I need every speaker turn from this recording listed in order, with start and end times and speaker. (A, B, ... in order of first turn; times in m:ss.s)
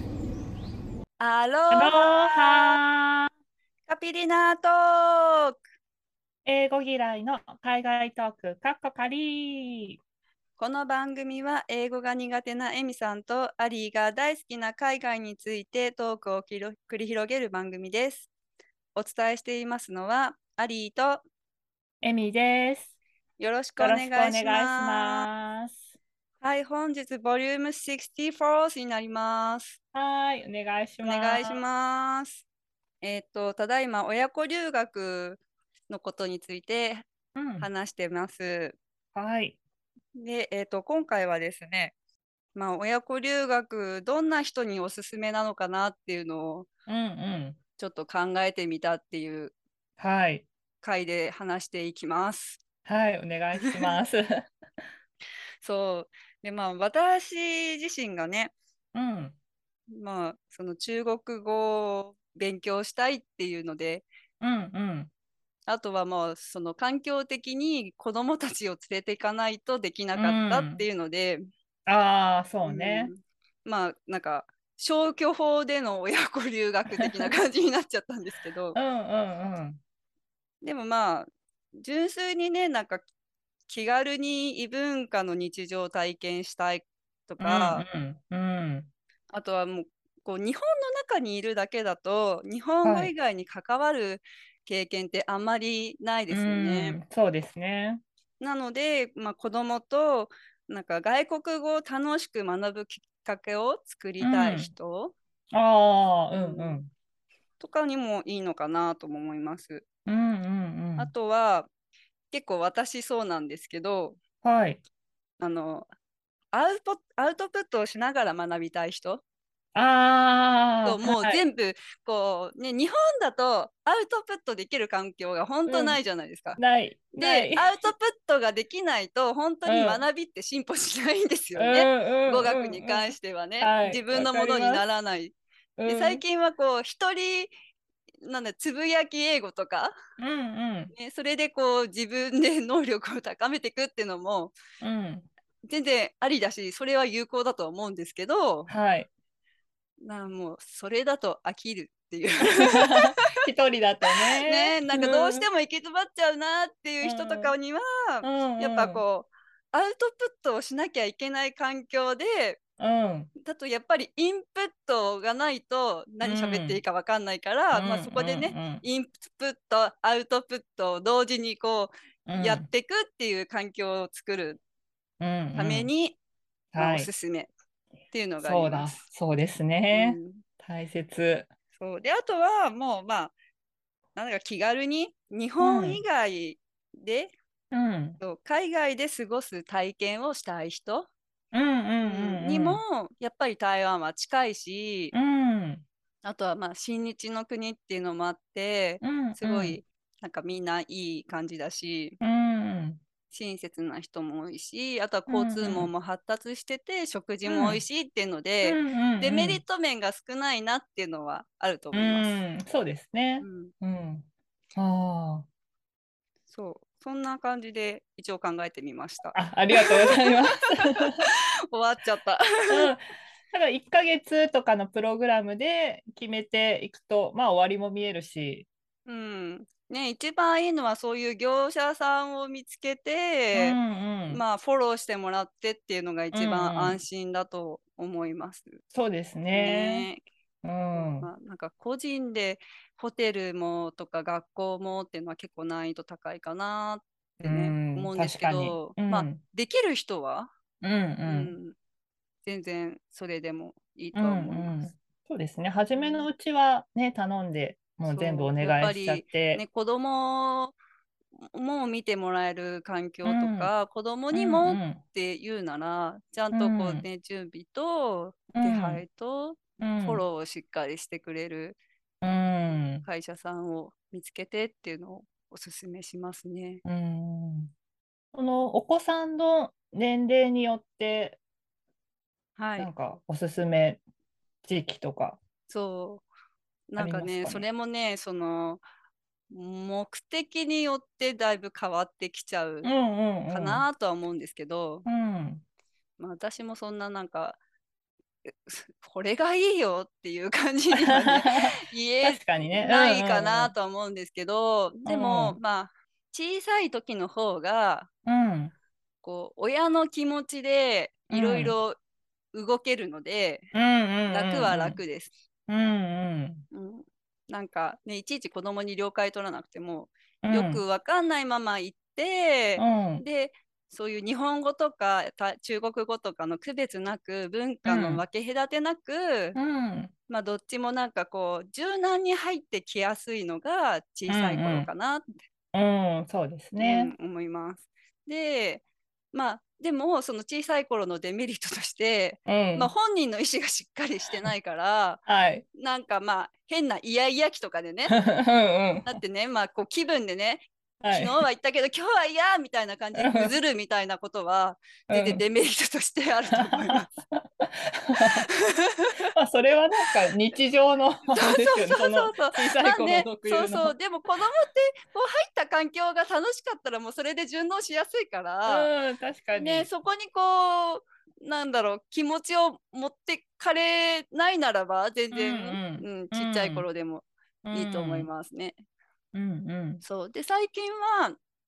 0:01.2-0:02.8 A
0:01.7-0:03.3 B
0:03.9-0:05.5 A
0:06.5-0:10.0 B
0:10.6-0:18.3 A
0:19.0-0:21.2 A
0:22.0-0:22.9 B
0:23.4-0:25.3 A
0:23.8-0:25.8 B
0:26.4-0:29.8 A
0:29.9-0:31.6 B
0:31.0-0:32.4 A
0:33.0-0:37.0 A
0:37.3-0:37.7 B
0:37.6-0:38.8 A
0:39.1-0:39.6 B
0:40.1-0:41.9 A
0:42.6-0:46.7 A
0:46.9-0:47.6 B
0:47.8-0:49.6 A
0:50.0-0:50.5 B
0:50.8-0:52.6 A
0:52.8-0:54.2 B
0:53.6-0:53.9 A
0:55.6-0:58.5 A
0:58.9-0:59.4 B
0:59.9-1:04.1 A
1:04.4-1:05.1 B
1:05.7-1:11.4 A
1:10.2-1:10.8 B
1:11.9-1:13.1 B
1:12.6-1:18.8 A
1:16.9-1:17.3 B
1:18.7-1:19.8 B
1:20.6-1:23.0 A
1:23.7-1:27.8 A
1:27.4-1:28.9 B
1:29.3-1:37.0 A
1:32.8-1:33.1 B
1:36.3-1:38.0 B
1:38.4-1:45.2 A
1:44.2-1:44.7 B
1:45.5-1:46.9 B
1:46.3-1:46.8 A
1:47.6-1:49.8 A
1:50.1-1:51.1 B
1:51.0-1:51.7 A
1:52.3-1:54.2 A
1:54.4-1:54.8 B
1:55.4-1:55.9 A
1:56.5-1:59.2 A
1:59.8-2:01.4 B
2:00.8-2:06.6 A
2:05.7-2:06.0 B
2:06.6-2:07.9 B
2:07.2-2:17.5 A
2:09.6-2:10.0 B
2:11.6-2:14.9 B
2:15.8-2:16.2 B
2:18.2-2:19.9 A
2:20.2-2:20.9 B
2:20.9-2:24.6 A
2:24.8-2:25.3 B
2:25.7-2:28.7 A
2:28.7-2:29.1 B
2:30.0-2:33.1 A
2:32.7-2:35.4 B
2:34.4-2:42.6 A
2:37.0-2:37.5 B
2:38.2-2:39.0 B
2:42.8-2:43.3 B
2:43.4-2:54.6 A
2:46.2-2:46.8 B
2:47.7-2:48.8 B
2:52.3-2:52.7 B
2:55.2-2:55.9 B
2:55.5-2:56.2 A
2:56.7-2:57.1 B
2:56.8-2:57.5 A
2:58.1-2:59.0 A
2:58.4-3:01.5 B
2:59.9-3:00.4 A
3:01.8-3:03.3 A
3:04.2-3:07.3 A
3:05.6-3:06.0 B
3:07.7-3:08.2 B
3:08.2-3:11.1 A
3:11.5-3:12.8 B
3:12.0-3:15.1 A
3:15.1-3:15.8 B
3:16.2-3:22.2 A
3:19.0-3:19.8 B
3:22.2-3:23.0 B
3:23.3-3:32.3 A
3:25.3-3:25.9 B
3:27.5-3:27.8 B
3:28.6-3:29.6 B
3:31.9-3:35.5 B
3:33.4-3:33.7 A
3:36.5-3:40.3 A
3:39.3-3:41.2 B
3:41.7-3:42.9 A
3:42.7-3:43.0 B
3:43.5-3:48.7 B
3:49.1-3:58.8 A
3:53.6-3:54.4 B
3:56.3-3:57.0 B
3:58.9-4:00.1 B
3:59.5-4:00.2 A
4:00.6-4:01.3 B
4:00.9-4:10.5 A
4:07.4-4:09.4 B
4:10.8-4:11.6 B
4:11.2-4:11.8 A
4:12.4-4:14.9 A
4:14.2-4:19.6 B
4:16.0-4:16.3 A
4:18.0-4:20.8 A
4:21.4-4:31.8 A
4:23.2-4:23.7 B
4:24.3-4:25.0 B
4:26.5-4:27.0 B
4:28.5-4:29.0 B
4:29.8-4:30.2 B
4:32.2-4:33.0 B
4:33.0-4:36.8 A
4:36.8-4:37.7 B
4:38.3-4:41.4 B
4:42.6-4:42.9 A
4:42.8-4:44.0 B
4:44.6-4:45.4 B
4:45.7-4:46.2 A
4:46.9-4:48.8 A
4:47.0-4:47.6 B
4:49.5-4:52.9 A
4:52.8-4:53.8 B
4:53.5-4:55.0 A
4:55.0-4:55.6 B
4:56.2-4:57.6 A
4:58.4-5:08.1 A
5:00.9-5:03.7 B
5:05.0-5:05.6 B
5:08.2-5:08.7 B
5:09.2-5:12.0 A
5:11.3-5:11.8 B
5:12.5-5:13.7 A
5:13.7-5:15.0 B
5:14.3-5:15.3 A
5:15.7-5:16.6 B
5:16.7-5:29.6 A
5:20.4-5:20.8 B
5:22.8-5:23.2 B
5:27.8-5:28.2 B
5:29.5-5:30.1 B
5:30.3-5:35.4 A
5:34.3-5:34.9 B
5:35.7-5:37.1 B
5:36.8-5:45.2 A
5:42.5-5:42.9 B
5:45.3-5:45.6 B
5:45.7-5:48.2 A
5:48.1-5:49.2 B
5:49.0-5:57.1 A
5:51.0-5:51.4 B
5:53.1-5:53.5 B
5:55.1-5:55.4 B
5:56.5-5:58.4 B
5:58.2-5:59.1 A
5:59.3-6:03.9 B
6:01.3-6:08.9 A
6:08.6-6:09.9 B
6:09.5-6:18.8 A
6:15.3-6:16.8 B
6:17.6-6:18.3 B
6:19.3-6:20.0 B
6:20.0-6:21.4 A